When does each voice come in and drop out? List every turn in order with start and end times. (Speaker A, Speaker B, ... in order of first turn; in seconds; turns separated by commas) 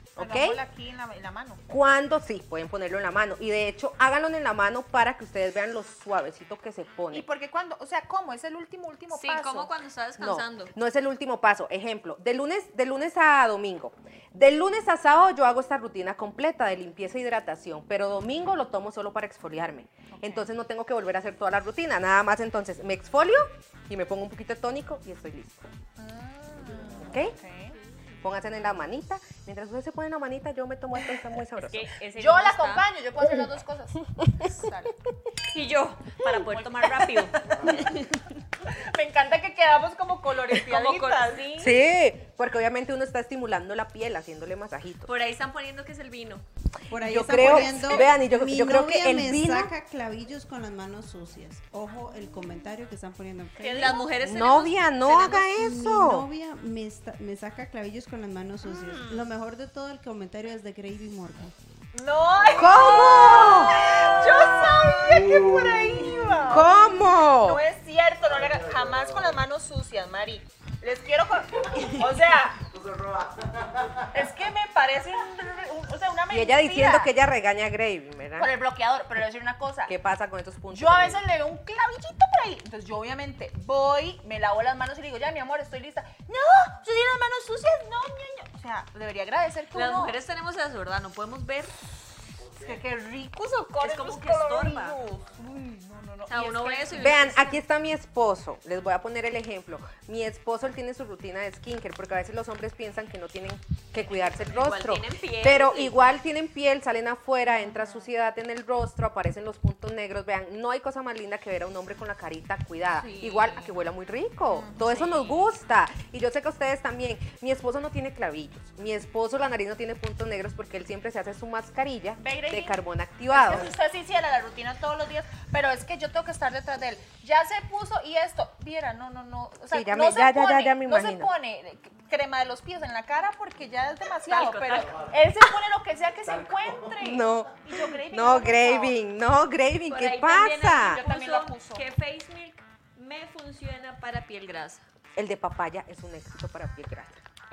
Speaker A: 0.2-0.6, Speaker B: 0.2-1.6, Speaker A: 1.7-7.2, Speaker B: 7.1-9.7, Speaker C: 9.1-10.7, Speaker A: 10.2-25.7, Speaker B: 20.1-20.5, Speaker B: 26.0-27.8, Speaker A: 27.0-27.4, Speaker A: 28.2-31.9, Speaker C: 31.6-32.9, Speaker B: 32.2-35.0, Speaker C: 35.5-38.3, Speaker B: 36.2-37.9, Speaker D: 37.5-38.0, Speaker B: 38.6-41.6, Speaker C: 40.6-41.7, Speaker A: 41.6-45.1, Speaker C: 45.1-46.4, Speaker E: 46.9-54.0, Speaker A: 47.0-49.7, Speaker C: 47.5-48.0, Speaker C: 53.6-55.5, Speaker A: 54.2-56.3, Speaker E: 55.5-61.5, Speaker C: 58.6-59.3, Speaker B: 61.9-72.6, Speaker A: 62.5-63.9, Speaker C: 62.7-63.1, Speaker D: 64.9-66.5, Speaker A: 66.5-67.6, Speaker D: 68.3-69.4, Speaker D: 72.6-74.2, Speaker B: 74.1-77.1, Speaker A: 76.3-78.5, Speaker B: 78.4-79.9, Speaker A: 79.9-81.2, Speaker B: 80.7-90.2, Speaker C: 89.7-91.7, Speaker D: 92.4-92.8, Speaker B: 92.6-97.4, Speaker C: 93.8-95.0, Speaker C: 96.3-97.6, Speaker A: 96.9-123.7, Speaker C: 104.4-106.1, Speaker B: 107.7-108.1, Speaker C: 113.0-113.5, Speaker B: 113.2-113.7, Speaker B: 114.5-115.4, Speaker B: 122.2-139.0, Speaker A: 129.7-131.3, Speaker C: 134.3-134.9, Speaker D: 134.8-135.2, Speaker D: 136.3-137.0, Speaker A: 137.0-141.0, Speaker C: 139.9-144.8, Speaker B: 140.8-141.8, Speaker A: 145.2-147.2